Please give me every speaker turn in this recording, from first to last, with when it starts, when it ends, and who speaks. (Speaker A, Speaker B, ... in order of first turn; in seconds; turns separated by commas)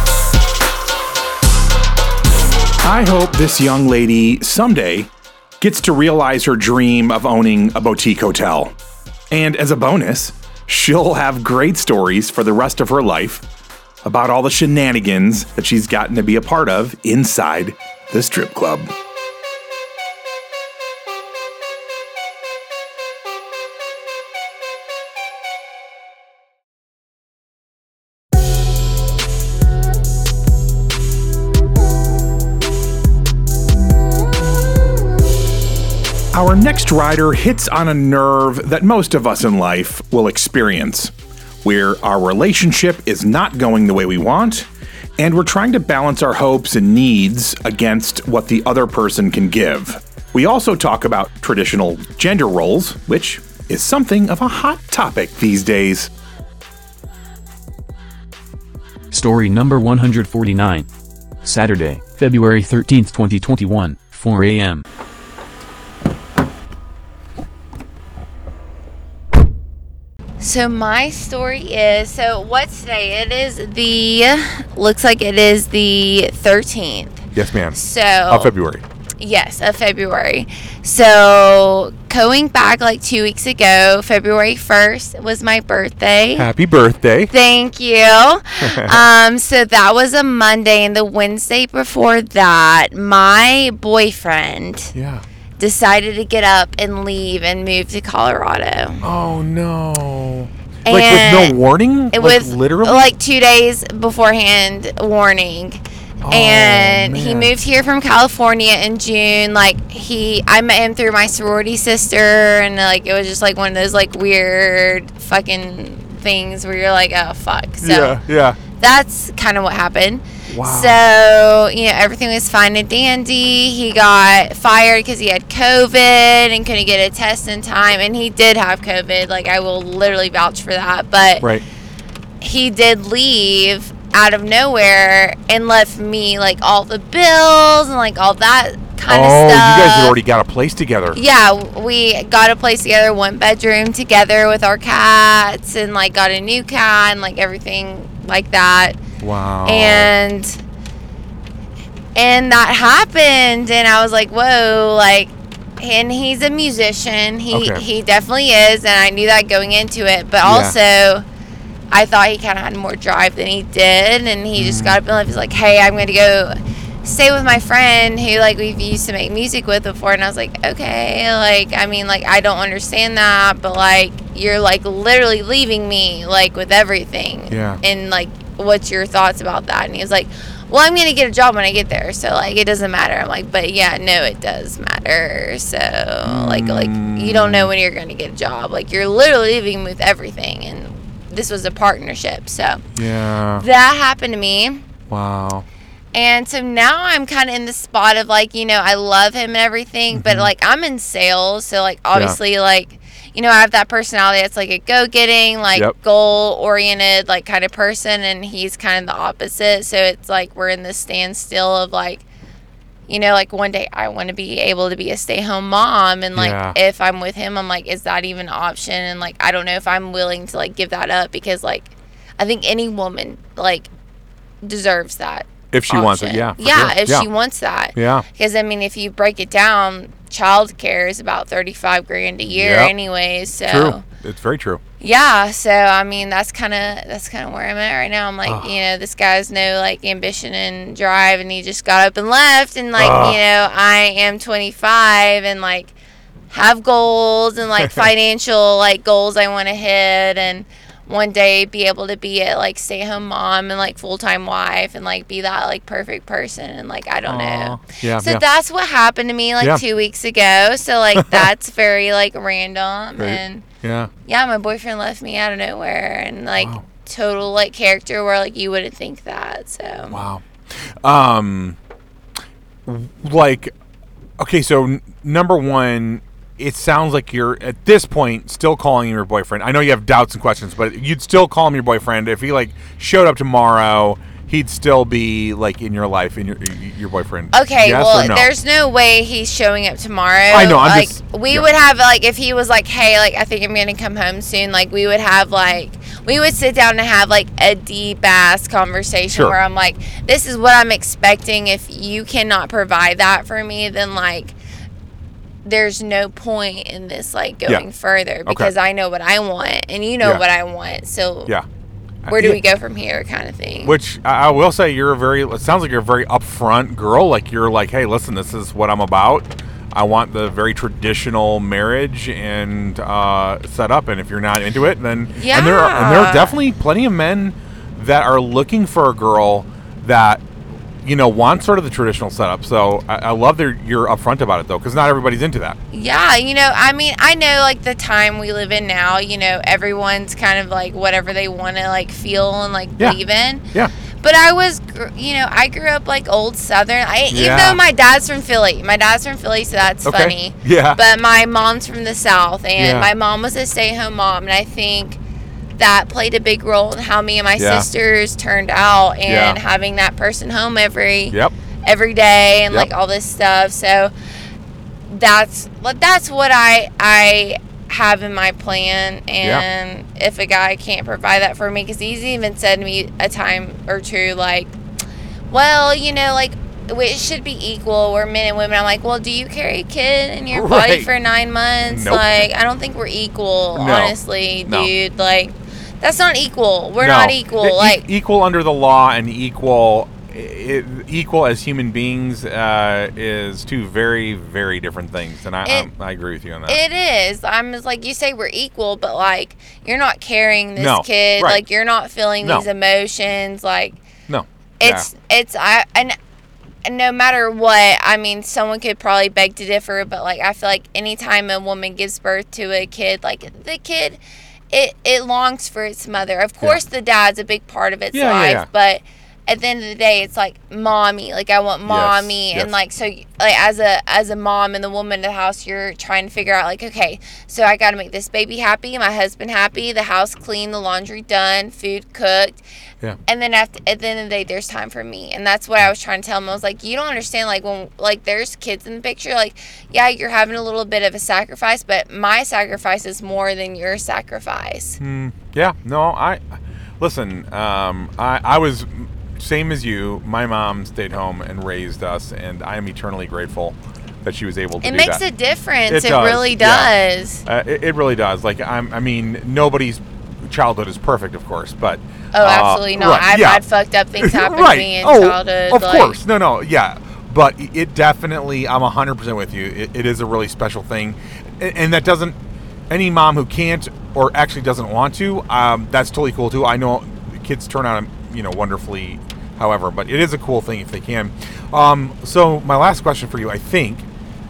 Speaker A: 2.8-8.7, Speaker A: 9.3-13.4, Speaker A: 14.0-18.9, Speaker A: 36.3-56.1, Speaker B: 59.1-60.9, Speaker B: 61.4-64.8, Speaker C: 70.4-77.2, Speaker D: 77.3-78.8, Speaker C: 77.7-78.5, Speaker C: 79.2-86.5, Speaker D: 86.4-87.3, Speaker C: 87.3-94.9, Speaker D: 88.6-89.1, Speaker D: 94.9-95.2, Speaker C: 95.6-99.0, Speaker D: 99.0-103.1, Speaker C: 100.9-101.6, Speaker C: 102.1-118.2, Speaker D: 106.2-107.5, Speaker D: 117.8-118.6, Speaker C: 118.7-131.4, Speaker D: 120.5-121.0, Speaker C: 132.4-140.2, Speaker D: 139.1-141.2, Speaker C: 141.1-149.0, Speaker D: 149.2-150.1, Speaker C: 149.7-150.6, Speaker C: 152.1-161.3, Speaker D: 157.5-157.8, Speaker D: 160.4-160.8, Speaker C: 161.9-192.8, Speaker D: 164.6-165.0, Speaker D: 177.5-177.8, Speaker D: 186.2-187.7, Speaker D: 192.9-193.7, Speaker C: 193.6-194.8, Speaker D: 195.1-195.7, Speaker C: 196.1-212.2, Speaker D: 200.1-200.5, Speaker D: 202.1-202.4, Speaker C: 213.1-223.9, Speaker D: 216.3-216.8, Speaker C: 224.6-234.0, Speaker D: 225.7-227.3, Speaker D: 227.9-228.2, Speaker D: 232.4-232.9, Speaker D: 233.6-234.8, Speaker C: 235.0-245.9, Speaker D: 238.4-238.8, Speaker D: 242.9-243.4, Speaker C: 246.5-263.6, Speaker D: 247.8-248.1, Speaker D: 257.2-258.4, Speaker D: 261.1-261.5, Speaker D: 263.2-264.1, Speaker C: 264.3-270.2, Speaker D: 266.6-266.8, Speaker D: 270.1-271.8, Speaker D: 272.9-273.7, Speaker D: 274.4-288.5, Speaker C: 287.5-304.6, Speaker D: 290.5-291.7, Speaker D: 299.3-299.6, Speaker C: 305.6-311.5, Speaker D: 308.4-308.7, Speaker D: 312.3-312.6, Speaker C: 312.3-313.9, Speaker D: 313.8-330.4, Speaker C: 325.4-326.6, Speaker D: 331.0-335.8, Speaker C: 335.9-343.6, Speaker C: 344.2-355.2, Speaker D: 347.3-347.8, Speaker D: 350.1-351.0, Speaker D: 352.8-353.1, Speaker C: 355.8-364.1, Speaker D: 357.6-357.9, Speaker D: 359.3-359.6, Speaker C: 365.1-374.8, Speaker C: 375.5-388.1, Speaker D: 380.5-381.1, Speaker D: 381.9-382.5, Speaker D: 383.8-384.9, Speaker D: 387.0-396.8, Speaker C: 395.6-395.9, Speaker C: 396.7-404.0, Speaker D: 400.8-401.6, Speaker D: 402.4-402.7, Speaker D: 404.3-405.1, Speaker C: 404.8-406.2, Speaker C: 406.9-414.2, Speaker C: 414.7-432.6, Speaker D: 418.1-418.7, Speaker D: 421.9-422.7, Speaker C: 433.3-445.0, Speaker D: 445.0-455.2, Speaker C: 454.8-457.4, Speaker D: 455.9-456.9, Speaker D: 457.4-463.6, Speaker C: 462.3-466.2, Speaker D: 464.2-472.4, Speaker D: 472.9-484.1